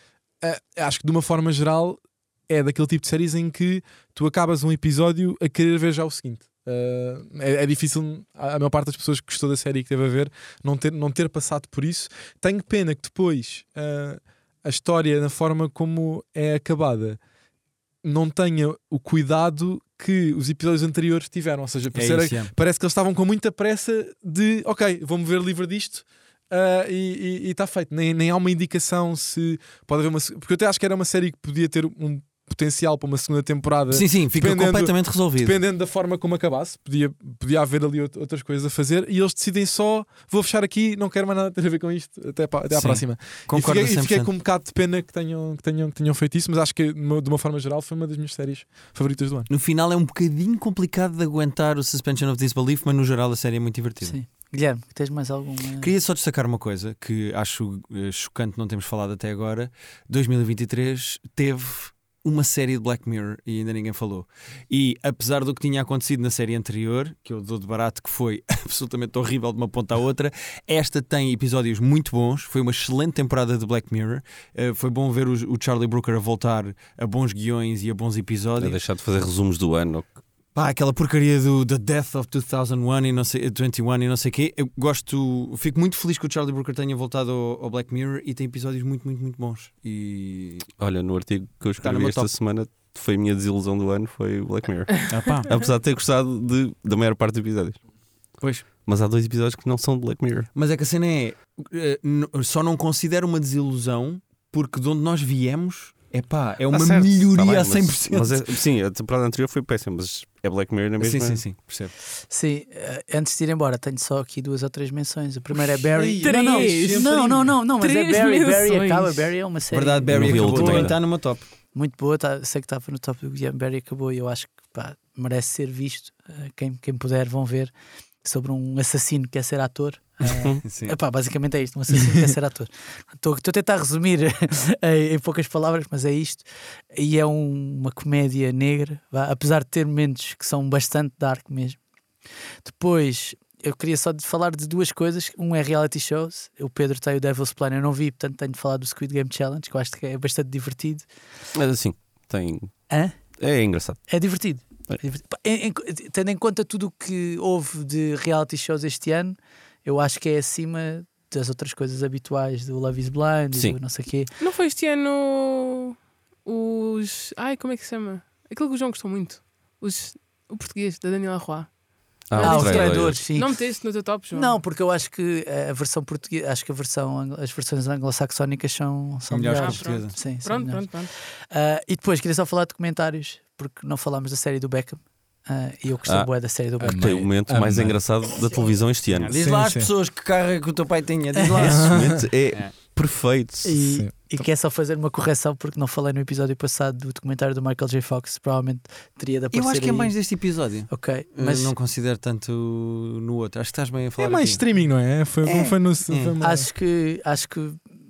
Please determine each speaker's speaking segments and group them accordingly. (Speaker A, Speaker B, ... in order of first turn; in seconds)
Speaker A: 0.4-17.2, 18.0-49.5, 115.9-117.5, 186.8-188.0, 189.3-189.9, 191.6-192.3, 193.8-194.4, 204.2-206.7
Speaker B: 21.9-22.5, 33.9-35.6, 42.7-44.3, 49.5-54.1, 55.8-78.8, 80.5-90.7, 91.8-92.3, 95.1-95.5, 98.4-98.7, 100.5-108.5, 111.0-111.9, 119.7-121.4, 130.6-130.9, 179.3-180.2, 189.1-192.7, 199.5-204.6, 205.4-206.3
Speaker C: 54.0-55.9, 112.3-121.1, 121.7-127.7, 128.2-141.8, 142.6-151.1, 152.9-153.1, 154.1-164.3, 172.4-187.2, 193.6-200.1, 200.9-201.7, 206.4-207.8
Speaker D: 78.6-80.1, 90.8-97.8, 98.8-100.5, 106.7-111.4, 120.1-121.0, 130.3-130.6, 151.5-154.1, 172.3-173.2, 186.9-189.3, 191.7-193.8
Speaker E: 116.2-119.3, 164.4-171.7, 172.3-174.6, 179.6-181.1